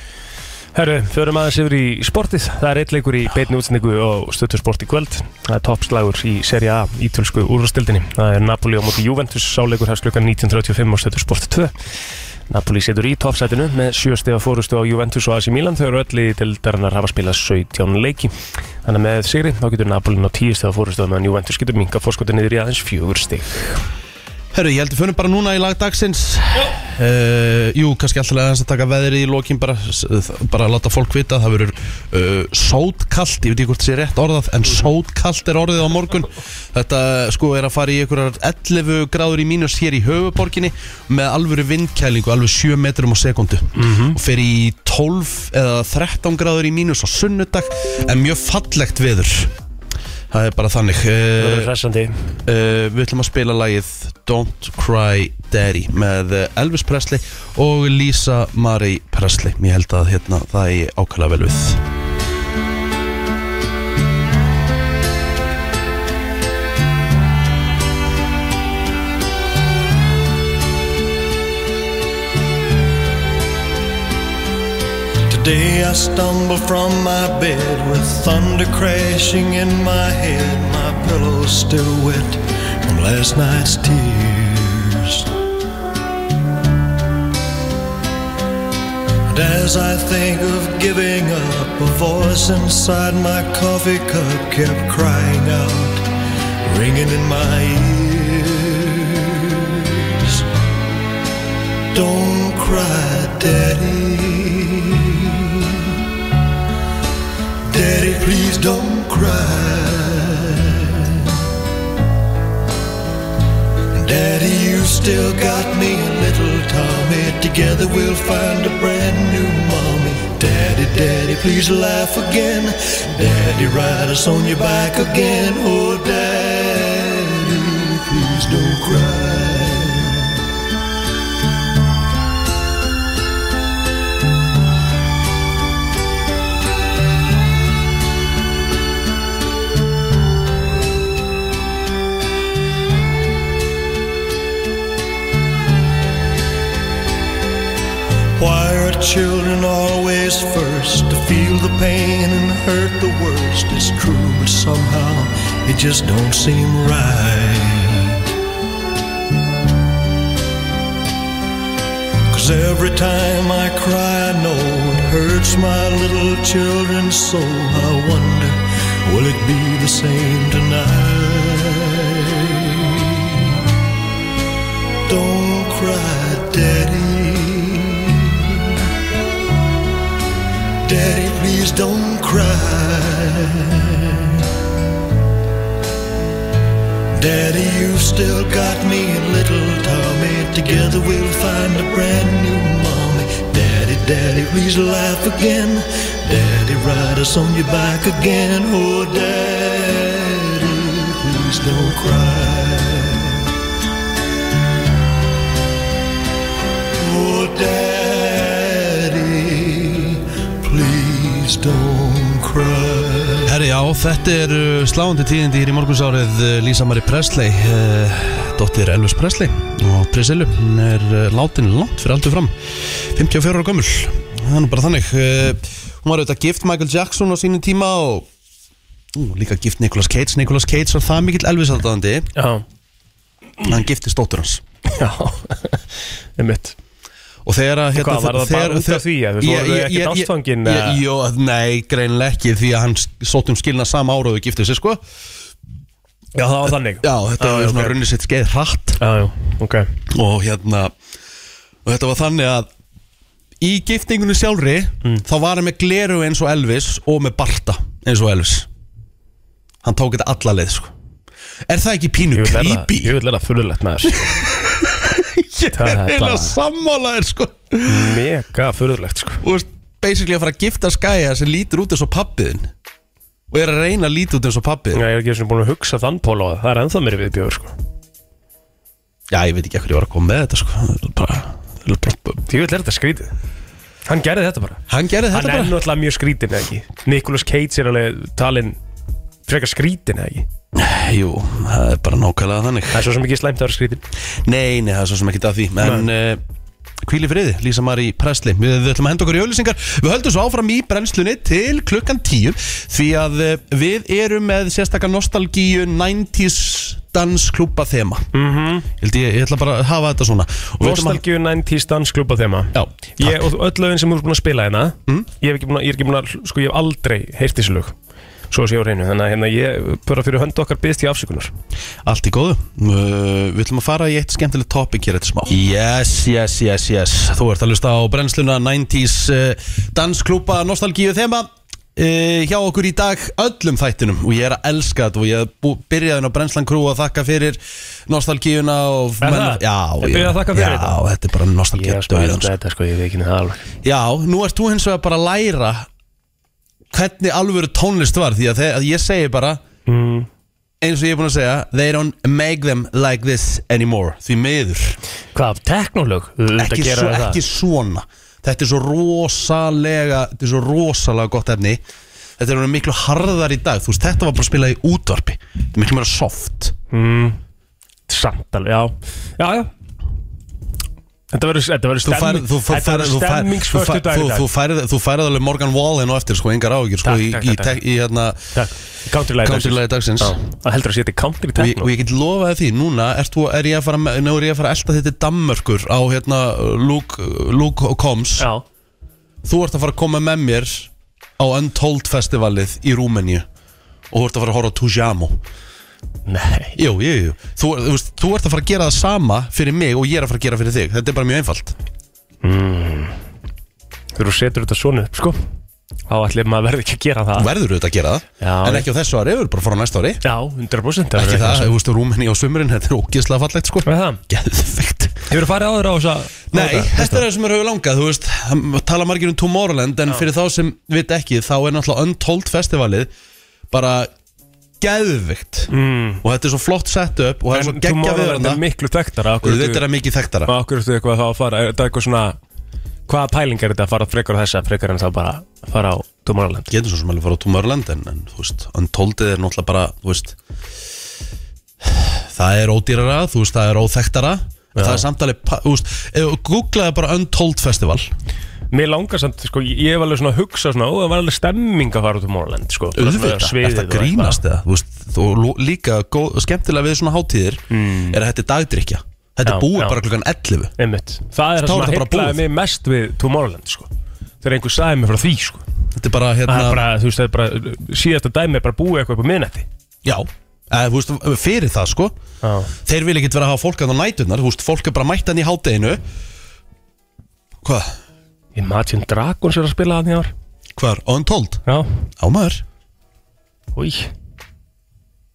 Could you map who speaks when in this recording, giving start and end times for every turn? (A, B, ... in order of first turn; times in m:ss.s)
0:00.7-0:11.7 A
0:12.5-0:23.8 A
0:24.5-0:49.5 B
0:43.7-0:44.2 A
0:50.3-0:51.7 B
0:51.4-0:52.2 A
0:52.4-1:01.8 B
1:15.3-1:25.3 C
1:29.3-1:36.1 C
1:36.6-1:40.5 C
1:41.9-1:46.0 C
1:47.7-1:51.4 C
1:53.9-2:10.4 C
2:28.4-2:38.3 C
2:42.3-2:53.6 C
2:55.1-2:58.8 C
3:00.8-3:04.5 C
3:07.1-3:23.5 C
3:27.0-3:33.5 C
3:33.4-3:48.3 B
3:49.1-3:52.3 B
3:52.4-3:52.6 A
3:53.6-3:54.6 B
3:54.9-3:55.9 A
3:56.4-3:56.8 A
3:57.4-4:05.0 B
3:57.9-4:01.0 A
4:06.4-4:08.0 A
4:07.0-4:09.0 B
4:09.0-4:09.9 A
4:10.1-4:10.9 B
4:11.8-4:12.7 B
4:13.6-4:18.7 B
4:19.8-4:20.9 B
4:21.7-4:23.2 B
4:22.4-4:24.4 A
4:24.1-4:28.2 B
4:25.7-4:26.6 A
4:27.8-4:29.4 A
4:29.4-4:32.7 B
4:33.5-4:35.0 B
4:34.9-4:37.7 A
4:39.3-4:42.4 B
4:42.5-4:43.3 A
4:44.1-4:48.8 A
4:44.9-4:45.8 B
4:49.5-4:50.5 A
4:50.8-4:53.0 B
4:52.9-4:54.0 A
4:54.4-4:56.4 B
4:55.8-4:56.1 A
4:57.0-5:08.3 B
5:08.3-5:08.9 A
5:09.0-5:11.2 B
5:10.8-5:17.9 A
5:12.7-5:13.5 B
5:18.5-5:21.5 A
5:22.0-5:42.5 B
5:39.2-5:41.0 A
5:41.7-5:43.6 A
5:43.8-5:45.9 B
5:46.9-5:49.6 B
5:49.9-5:50.3 A
5:50.8-5:55.0 B
5:55.3-5:57.4 A
5:56.6-6:01.8 B
6:02.4-6:06.7 B
6:06.9-6:07.4 A
6:08.1-6:09.7 A
6:11.3-6:14.5 A
6:12.0-6:18.5 B
6:17.0-6:17.8 A
6:18.5-6:21.9 A
6:19.4-6:20.4 B
6:21.6-6:28.5 B
6:28.4-6:28.6 A
6:29.4-6:33.5 B
6:34.1-6:35.4 B
6:36.2-6:36.8 A
6:36.8-6:41.8 B
6:42.4-6:43.2 A
6:44.2-6:45.4 A
6:46.1-6:47.5 A
6:47.4-6:50.2 B
6:48.4-6:48.9 A
6:50.2-6:51.7 A
6:51.2-6:55.2 B
6:53.8-6:54.2 A
6:55.3-6:57.2 A
6:56.5-7:03.1 B
7:03.7-7:04.1 B
7:04.8-7:05.7 B
7:05.7-7:06.2 A
7:06.2-7:08.6 B
7:07.5-7:09.8 A
7:09.4-7:10.5 B
7:10.5-7:12.4 A
7:13.1-7:16.7 A
7:16.7-7:20.4 B
7:21.8-7:28.1 B
7:24.8-7:25.0 A
7:28.7-7:34.4 A
7:32.9-7:40.7 B
7:37.7-7:38.2 A
7:39.5-7:40.0 A
7:40.8-7:43.9 A
7:41.6-7:42.4 B
7:44.4-7:45.6 A
7:45.9-7:46.8 B
7:46.5-7:49.7 A
7:50.0-7:52.2 B
7:52.4-7:52.7 A
7:52.8-7:56.0 B
7:57.6-7:57.9 B
7:58.5-8:00.3 A
8:00.8-8:01.6 B
8:02.2-8:02.6 B
8:03.8-8:04.1 A